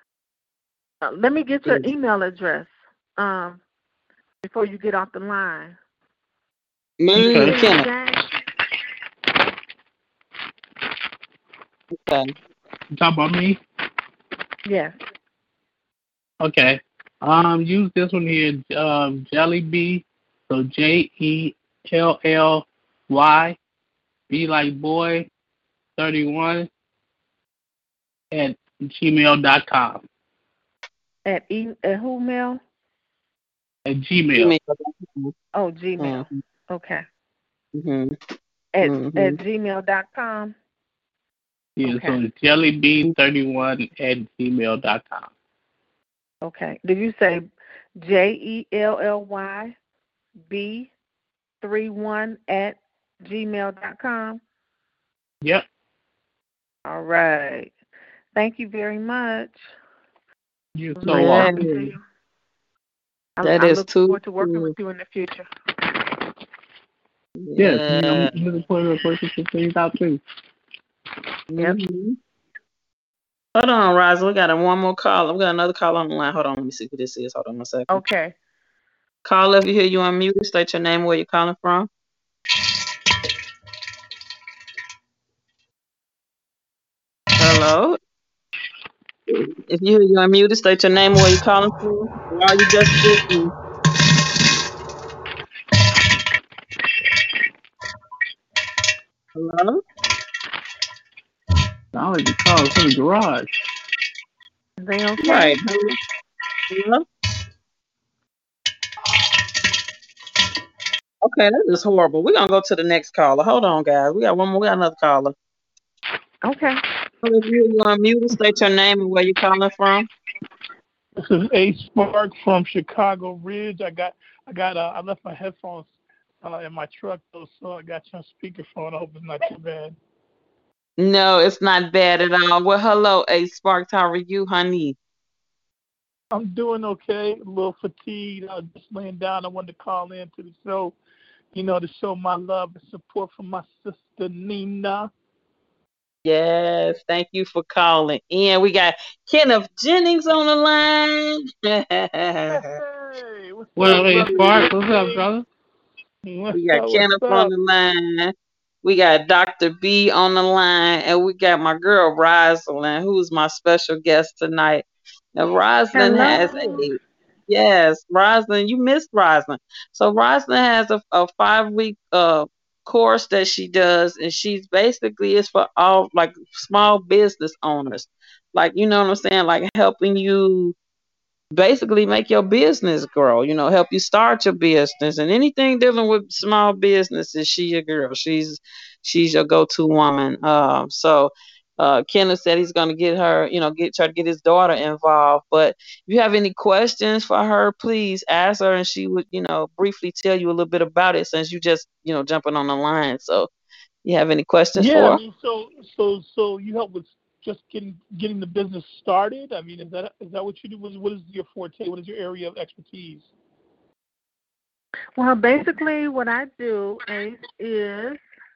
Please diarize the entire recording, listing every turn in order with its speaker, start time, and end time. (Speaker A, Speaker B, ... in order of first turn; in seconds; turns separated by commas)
Speaker A: 1.0-3.6, Speaker A: 4.4-5.8, Speaker B: 7.0-7.9, Speaker C: 7.1-7.6, Speaker A: 7.1-8.3, Speaker B: 12.0-12.3, Speaker C: 12.9-13.6, Speaker A: 14.6-15.0, Speaker C: 16.4-23.6, Speaker C: 24.3-25.3, Speaker C: 26.0-26.7, Speaker C: 28.3-30.0, Speaker A: 31.2-32.6, Speaker C: 33.9-34.5, Speaker B: 34.4-35.3, Speaker A: 35.5-37.0, Speaker B: 36.0-36.4, Speaker B: 37.7-38.1, Speaker A: 38.7-40.5, Speaker B: 38.8-39.4, Speaker C: 41.8-45.3, Speaker A: 41.8-42.2, Speaker A: 46.4-47.4, Speaker A: 48.0-49.7, Speaker A: 50.5-50.9, Speaker A: 51.6-54.4, Speaker A: 56.9-57.7, Speaker A: 58.3-59.6, Speaker C: 60.8-61.7, Speaker A: 61.0-62.0, Speaker B: 61.1-61.9, Speaker A: 63.4-65.5, Speaker B: 63.4-64.7, Speaker B: 67.4-68.3, Speaker C: 67.6-70.2, Speaker B: 71.5-72.2, Speaker B: 73.5-78.0, Speaker A: 77.9-78.3, Speaker B: 79.2-81.9, Speaker B: 87.4-88.0, Speaker B: 89.3-93.5, Speaker B: 99.3-99.8, Speaker C: 101.9-103.5, Speaker A: 104.8-105.6, Speaker B: 105.2-105.9, Speaker B: 106.7-107.0, Speaker B: 111.2-115.3, Speaker A: 116.4-116.8, Speaker B: 117.2-120.1, Speaker D: 121.2-125.9, Speaker D: 126.4-129.9, Speaker B: 131.0-134.9, Speaker D: 136.3-140.9, Speaker D: 141.5-145.1, Speaker B: 146.2-152.8, Speaker D: 152.5-155.3, Speaker C: 153.8-155.4, Speaker B: 154.3-154.6, Speaker D: 156.2-157.5, Speaker B: 156.5-164.8, Speaker B: 165.3-180.7, Speaker A: 165.9-166.8, Speaker D: 166.3-166.8, Speaker B: 181.5-203.5, Speaker B: 204.0-205.2, Speaker D: 204.7-213.3, Speaker A: 215.2-218.2